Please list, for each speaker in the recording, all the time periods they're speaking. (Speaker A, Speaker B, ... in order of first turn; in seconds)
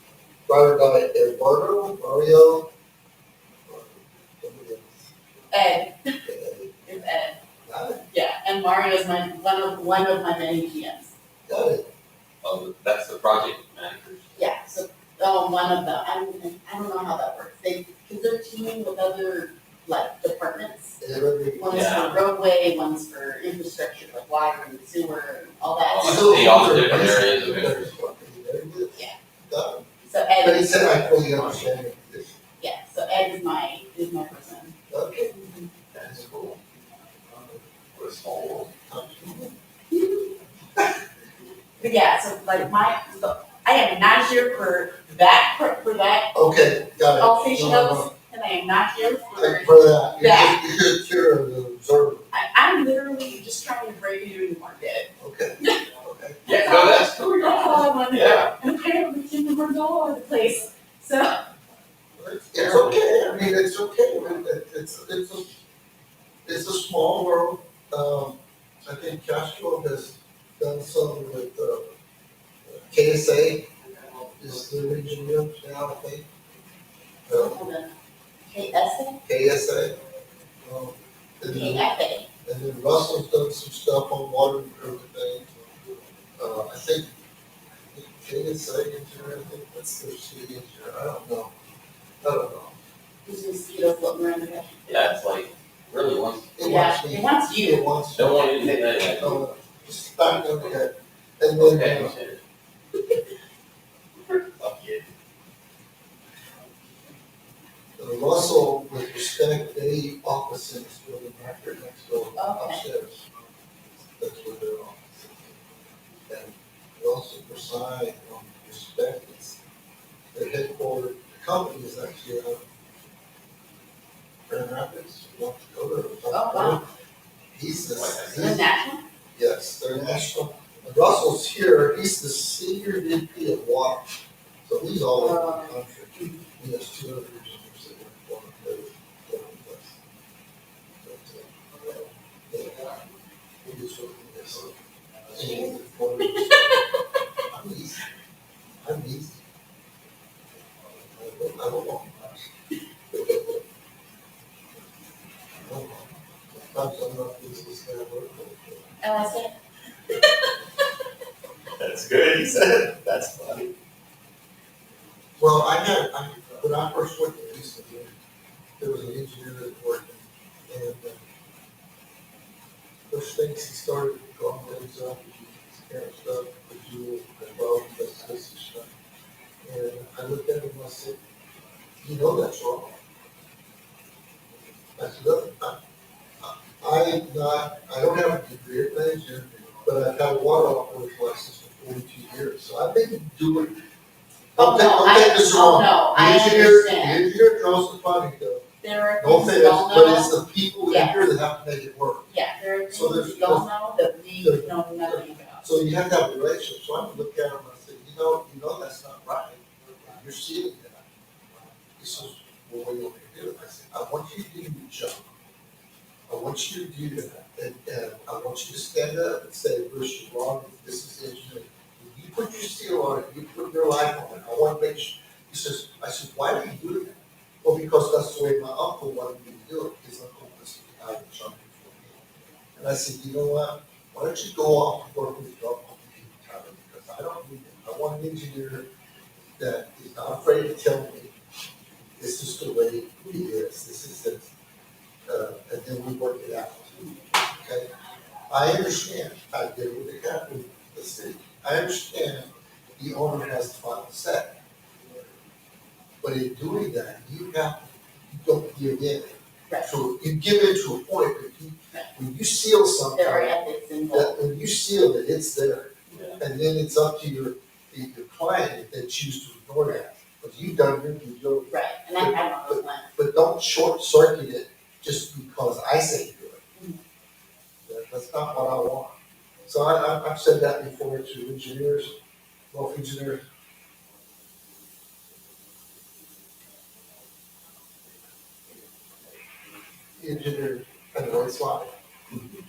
Speaker A: 0.5-2.7, 3.7-5.1, 6.2-6.9, 7.7-8.1, 11.5-11.9, 21.0-21.8, 26.0-29.9, 30.4-32.4, 34.9-35.3, 36.0-36.4, 37.3-37.7, 38.7-39.6, 46.3-48.1, 49.4-52.3, 55.2-56.4, 62.2-65.6, 66.5-71.9, 72.7-73.7, 74.3-76.3, 77.3-77.6, 79.2-80.0, 80.6-81.9, 82.5-87.2, 87.8-91.5, 92.2-92.8, 96.6-102.2, 108.0-113.4, 114.0-115.6, 116.2-119.6, 120.3-122.6, 124.5-126.9, 127.5-128.6, 129.3-134.1, 134.7-140.0, 141.0-143.0, 143.6-144.8, 145.3-146.8, 147.5-148.0, 148.8-149.4, 151.1-152.5, 155.7-158.9, 165.4-168.2, 168.8-171.2, 173.1-178.9, 179.6-181.2, 182.0-183.0, 185.0-185.8, 186.4-193.8, 194.6-198.7, 199.2-202.3, 202.9-203.7, 204.4-211.1, 212.0-215.3, 216.3-232.2, 232.8-238.9, 239.6-241.3, 242.2-244.5, 245.3-246.9, 247.5-247.9, 248.5-254.6, 256.2-276.6, 277.9-279.1, 279.7-282.2, 282.7-283.4, 290.2-291.9
Speaker B: 5.5-6.2, 6.9-7.4, 8.1-11.1, 14.3-21.0, 21.5-26.8, 30.0-31.2, 32.6-34.7, 35.3-35.7, 39.9-40.3, 41.8-46.3, 47.1-50.6, 52.3-55.8, 56.5-61.4, 77.3-77.9, 78.5-79.2, 81.4-82.3, 93.2-94.9, 96.6-97.9, 112.4-112.9, 126.3-126.8, 128.3-129.0, 135.2-136.4, 145.4-146.8, 159.0-159.6, 194.6-197.3, 198.8-200.4, 200.9-201.3, 202.3-205.8, 247.0-247.3, 259.7-259.9, 263.1-264.4, 271.7-273.1
Speaker C: 12.4-14.3, 21.7-22.2, 25.9-27.9, 31.1-31.7, 35.9-36.6, 37.9-38.7, 56.5-58.5, 62.6-63.0, 94.9-96.6, 98.1-99.4, 100.5-100.8, 101.5-102.4, 104.3-105.1, 127.9-128.6, 161.8-163.7, 266.1-266.4, 292.3-292.6